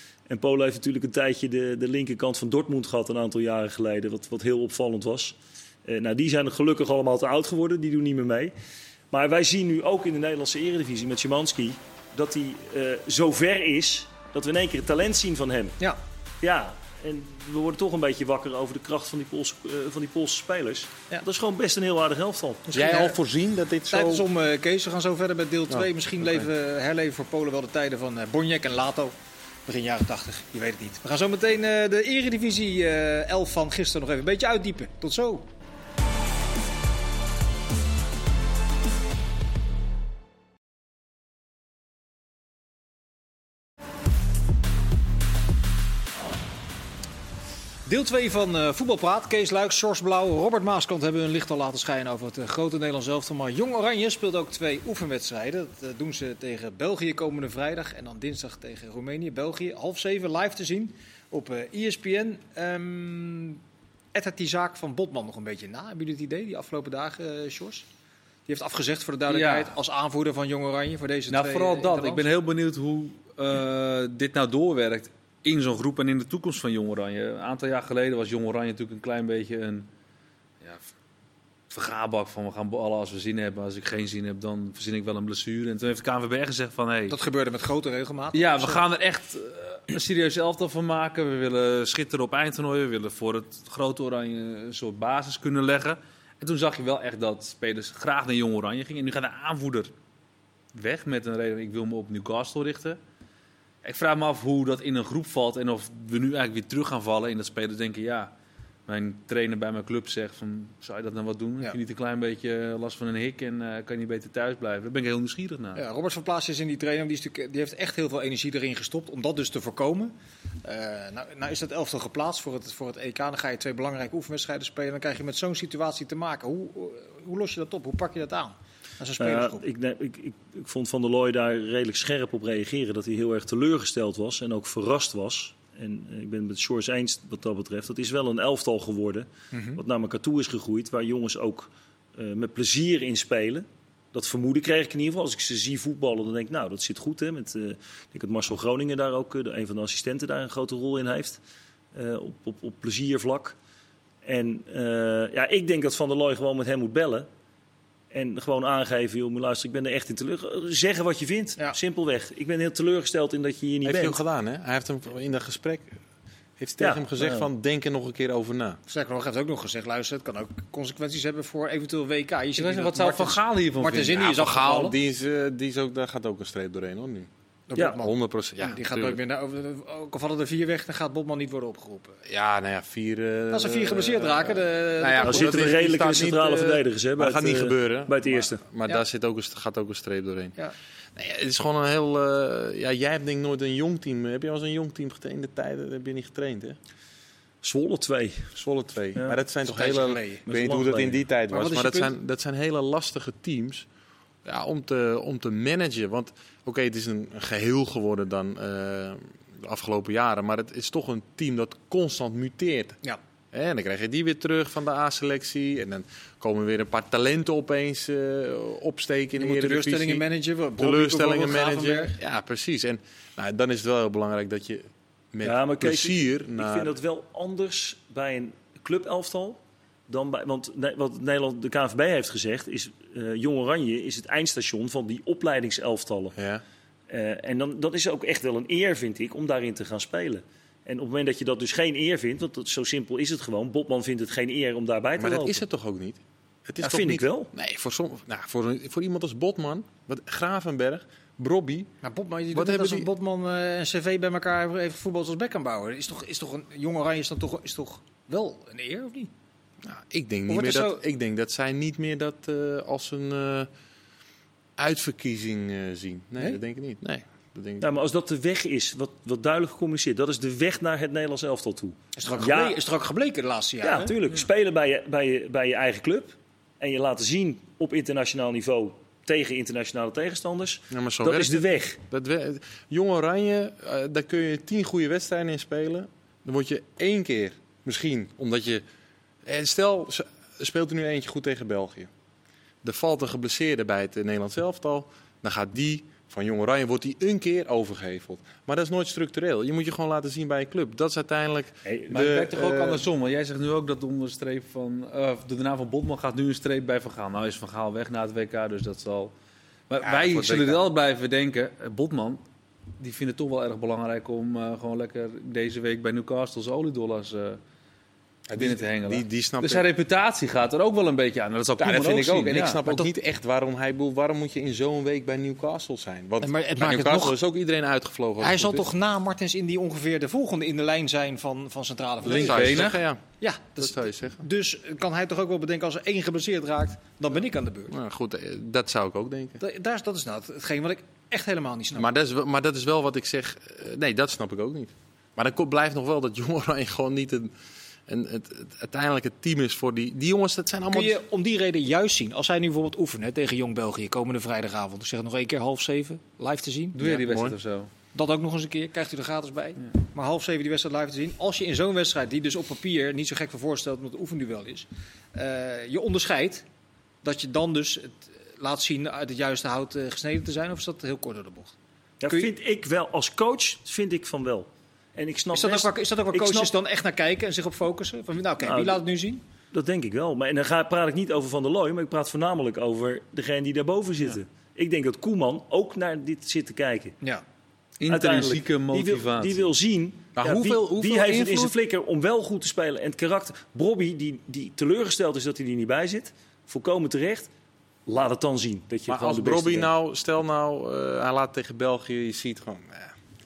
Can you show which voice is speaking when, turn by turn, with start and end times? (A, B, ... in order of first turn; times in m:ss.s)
0:00.3-0:08.5 A
0:09.1-0:15.8 A
0:16.4-0:22.8 A
0:22.7-0:23.2 B
0:22.7-0:24.3 C
0:23.9-0:29.2 B
0:29.7-0:35.5 B
0:47.9-1:03.6 B
1:04.1-1:07.9 B
1:08.5-1:12.3 B
1:09.3-1:09.7 D
1:11.3-1:19.9 D
1:20.6-1:20.9 D
1:21.7-1:27.2 D
1:27.1-1:28.8 B
1:28.3-1:39.9 D
1:40.7-1:43.0 D
1:43.8-1:48.3 D
1:48.9-1:55.8 D
1:55.8-2:09.6 B
2:09.2-2:31.4 A
2:19.5-2:19.8 B
2:31.9-2:33.6 A
2:34.2-2:37.3 A
2:38.1-2:44.2 A
2:43.8-2:46.0 C
2:46.6-2:48.8 C
2:46.8-2:47.5 A
2:48.9-2:55.0 B
2:52.6-2:54.3 D
2:54.2-2:57.3 C
2:57.7-3:02.2 B
2:57.9-2:59.2 C
3:02.3-3:10.6 C
3:03.5-3:05.8 B
3:05.2-3:08.6 A
3:11.2-3:16.8 C
3:17.6-3:18.6 A
3:18.6-3:23.9 C
3:19.6-3:20.4 B
3:20.5-3:21.2 A
3:21.5-3:22.1 B
3:24.4-3:33.0 C
3:33.5-3:40.2 C
3:39.4-3:42.2 B
3:40.8-3:46.9 C
3:45.4-3:56.4 A
3:56.4-3:56.6 C
3:57.1-4:05.6 A
4:05.2-4:11.9 C
4:06.8-4:07.5 A
4:12.0-4:19.3 B
4:12.5-4:13.1 C
4:19.8-4:23.7 C
4:20.5-4:21.0 B
4:24.8-4:27.9 C
4:27.8-4:32.8 A
4:32.2-4:34.2 B
4:33.8-4:42.0 A
4:40.9-4:48.8 C
4:49.4-4:52.1 C
4:52.8-5:03.1 C
5:01.8-5:02.1 A
5:02.1-5:09.3 D
5:09.9-5:12.4 D
5:10.0-5:10.8 C
5:13.0-5:17.6 D
5:18.5-5:19.9 C
5:18.5-5:22.8 D
5:21.8-5:28.9 C
5:26.4-5:27.4 B
5:28.4-5:37.9 B
5:32.2-5:33.2 C
5:32.3-5:33.0 D
5:33.8-5:34.4 C
5:37.9-5:39.6 C
5:39.6-5:42.1 B
5:42.0-5:47.5 C
5:48.1-5:51.2 C
5:50.9-5:57.0 B
5:57.0-5:57.9 D
5:57.0-5:57.6 C
5:58.1-6:06.6 B
6:07.2-6:11.7 B
6:12.2-6:16.7 A
6:15.5-6:19.4 B
6:18.6-6:19.0 A
6:19.7-6:27.2 A
6:28.0-6:29.7 D
6:28.1-6:37.5 A
6:30.4-6:31.8 C
6:38.1-6:39.9 A
6:39.1-6:43.1 C